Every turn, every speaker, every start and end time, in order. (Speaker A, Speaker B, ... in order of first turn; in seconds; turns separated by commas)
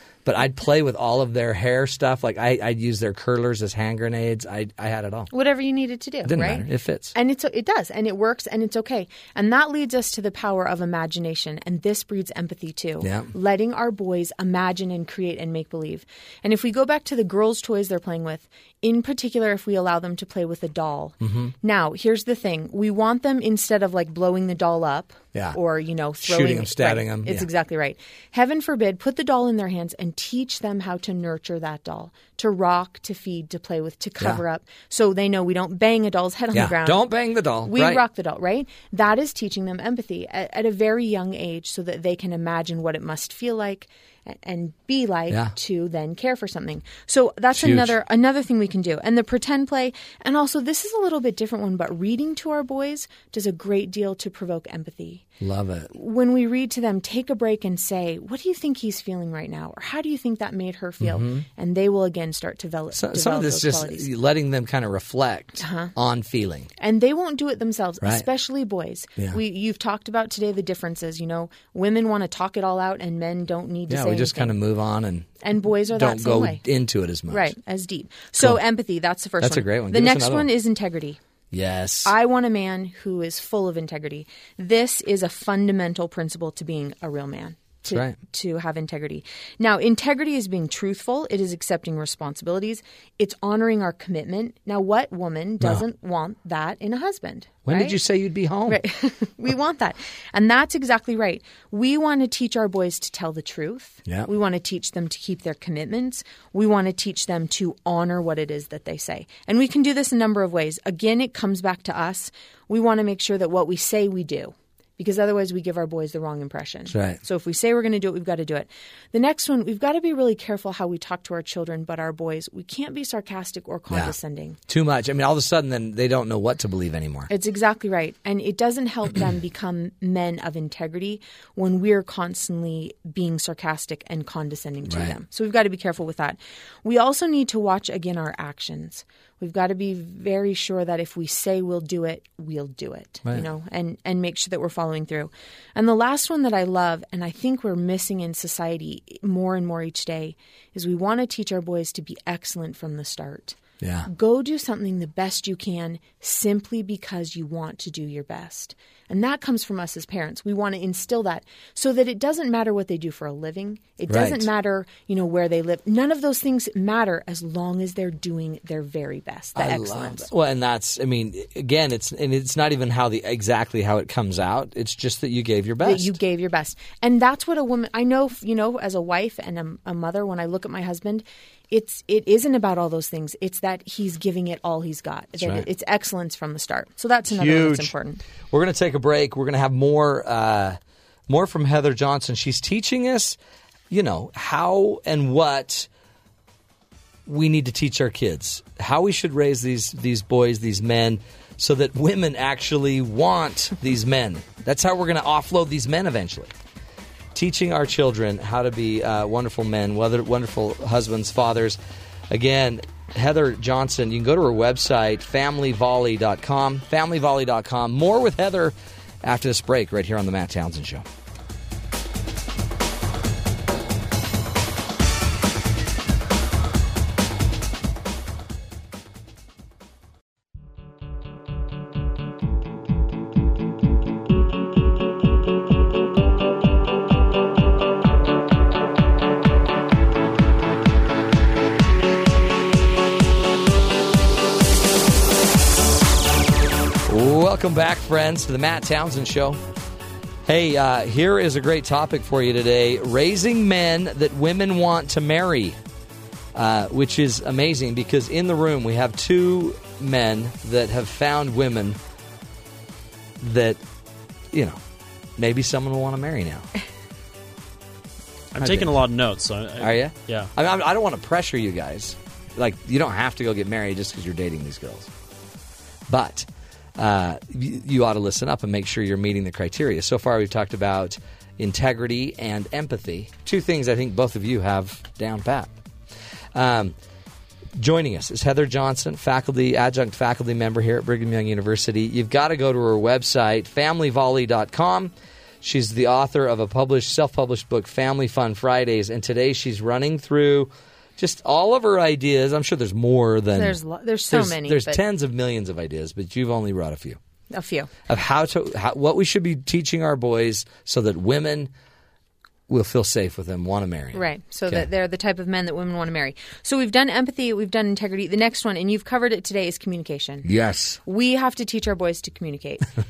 Speaker A: 0.2-5.3, Speaker B: 5.3-37.1, Speaker A: 6.2-7.1, Speaker A: 13.0-13.3, Speaker A: 21.2-21.5, Speaker A: 26.2-27.5, Speaker A: 36.5-38.0, Speaker B: 37.6-55.2, Speaker A: 47.5-47.9, Speaker A: 55.4-55.9, Speaker B: 55.9-64.1, Speaker A: 61.0-61.5, Speaker A: 62.9-66.7, Speaker B: 65.6-65.9, Speaker B: 66.8-74.6, Speaker A: 73.9-75.3, Speaker B: 75.4-76.6, Speaker A: 75.9-77.5, Speaker B: 77.3-81.2, Speaker A: 79.4-80.5, Speaker A: 81.5-82.1, Speaker B: 82.0-98.0, Speaker A: 87.9-88.2, Speaker A: 97.7-98.8, Speaker B: 98.7-124.6, Speaker A: 116.9-117.2, Speaker A: 124.7-127.3, Speaker B: 127.3-170.3, Speaker A: 134.9-135.2, Speaker A: 153.8-154.1, Speaker A: 164.1-164.5, Speaker A: 169.6-176.1, Speaker B: 175.8-188.2, Speaker A: 185.4-185.6, Speaker A: 187.3-193.4, Speaker A: 193.9-195.9, Speaker A: 197.2-206.5, Speaker A: 207.3-211.8, Speaker A: 212.3-221.0, Speaker A: 247.1-249.6, Speaker A: 250.4-255.8, Speaker A: 256.5-262.0, Speaker A: 263.4-263.8, Speaker A: 264.5-264.8, Speaker A: 265.4-266.7, Speaker C: 268.5-270.5, Speaker A: 268.6-269.0, Speaker A: 269.8-275.1, Speaker A: 276.1-285.7, Speaker A: 286.5-286.9, Speaker A: 287.8-303.8, Speaker B: 303.5-305.0, Speaker A: 304.3-307.2, Speaker B: 307.5-307.9, Speaker A: 308.1-311.7, Speaker A: 312.7-314.8, Speaker B: 314.1-320.5, Speaker A: 320.4-321.0, Speaker B: 321.0-322.9